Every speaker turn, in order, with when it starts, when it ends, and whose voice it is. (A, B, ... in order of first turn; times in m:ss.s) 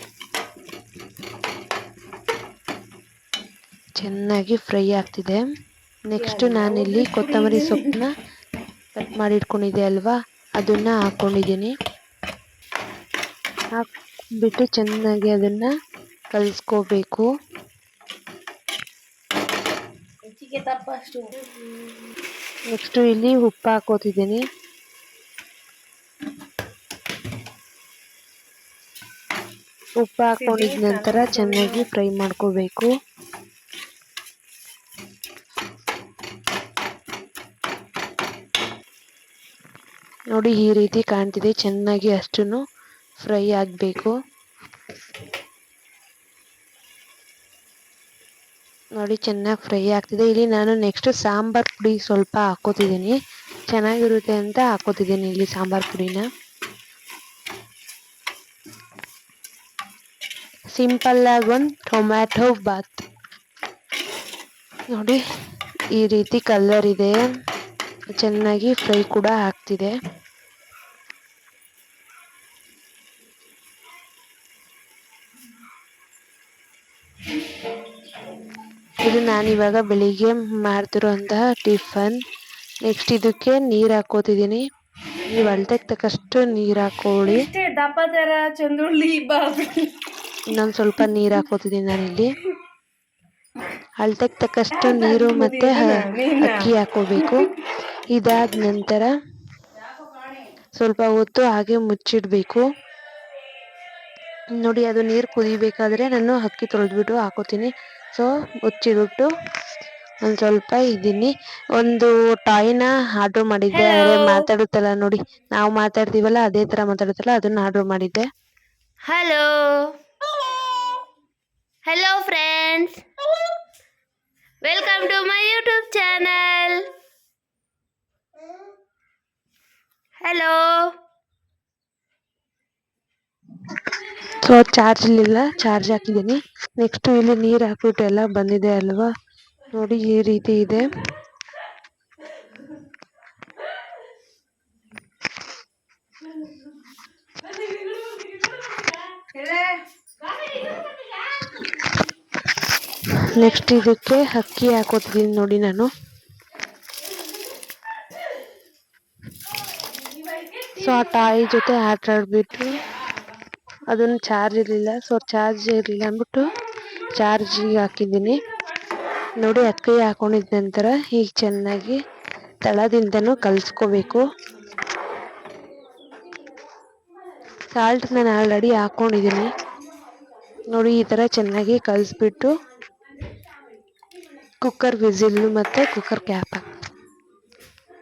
0:04.0-0:05.4 A
0:06.1-0:08.1 A
0:06.2-0:08.0 B
0:09.0-0:11.7 A
0:14.4-0:15.7 A
0:16.3-0:17.3 A
0:20.3-0:21.5 B
0:22.7-0:24.4 A
0:30.0-0:32.9 A
0:30.4-0:31.9 B
0:40.3-0:42.6 A
0:43.2-0:44.1 A
0:49.0-0:53.2 A
0:53.7-0:56.2 A
1:00.8-1:03.0 A
1:04.9-1:05.2 A
1:06.0-1:07.2 A
1:08.2-1:09.9 A
1:19.0-1:22.2 A
1:22.9-1:24.6 A
1:25.3-1:27.4 A
1:27.2-1:29.9 B
1:30.5-1:32.4 A
1:34.0-1:37.5 A
1:34.7-1:37.5 B
1:38.1-1:39.1 A
1:40.8-1:42.6 A
1:44.6-1:49.3 A
1:50.2-1:58.3 A
1:53.7-1:54.4 C
1:59.0-1:59.9 C
2:01.9-2:03.0 C
2:04.6-2:06.9 C
2:10.2-2:10.9 C
2:14.2-2:19.1 A
2:19.7-2:20.9 A
2:27.9-2:29.8 B
2:30.5-2:31.2 B
2:33.1-2:35.9 A
2:40.7-2:42.8 A
2:43.9-2:46.5 A
2:47.1-2:48.4 A
2:49.4-2:52.0 A
2:52.6-2:54.2 A
2:57.7-2:59.5 A
3:00.7-3:02.5 A
3:04.6-3:06.7 A